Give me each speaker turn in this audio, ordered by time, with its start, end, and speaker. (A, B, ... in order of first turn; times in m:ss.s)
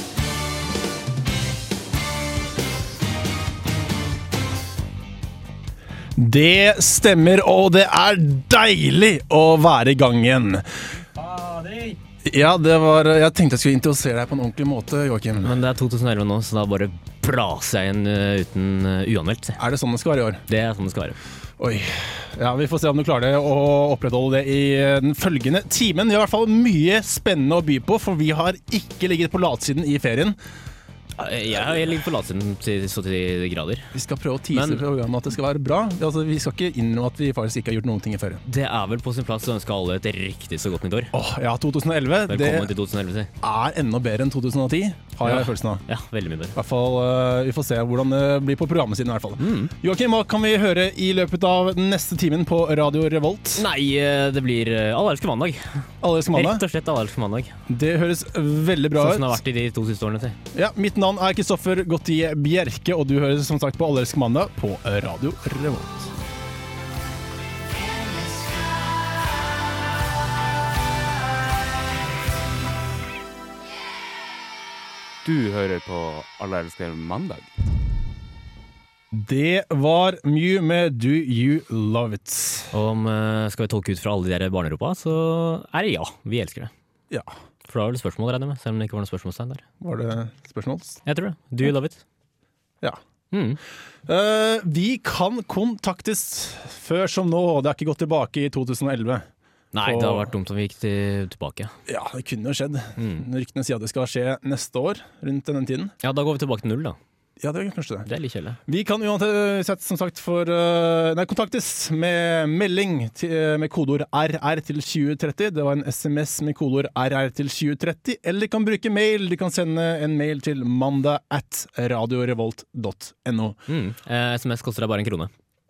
0:06.2-0:11.0 A
0:11.1-0:12.0 B
0:12.2-0:15.6 A
0:15.4-0:19.6 B
0:19.6-0:20.4 A
0:20.5-0:21.2 B
0:21.6-0:30.4 A
0:31.2-0:33.9 B
0:33.9-0:38.4 A
0:34.5-0:34.8 B
0:38.4-0:41.1 B
0:41.1-0:42.7 A
0:42.3-0:43.3 B
0:43.4-0:45.8 A
0:45.2-0:46.6 B
0:46.5-0:53.6 A
0:49.4-0:49.7 B
0:53.5-0:57.5 B
0:56.0-0:56.6 A
0:57.7-0:59.4 A
0:59.0-1:00.4 B
1:00.5-1:06.1 A
1:15.2-1:17.5 C
1:19.1-1:22.7 A
1:22.7-1:26.7 B
1:27.7-1:29.6 B
1:29.8-1:31.0 A
1:31.0-1:32.0 B
1:33.3-1:33.6 B
1:34.0-1:39.2 A
1:39.7-1:41.7 B
1:39.8-1:40.3 A
1:41.9-1:45.9 A
1:43.0-1:43.2 B
1:46.0-1:47.0 B
1:47.4-1:48.1 A
1:48.0-1:48.6 B
1:48.7-2:03.6 A
2:03.7-2:05.3 B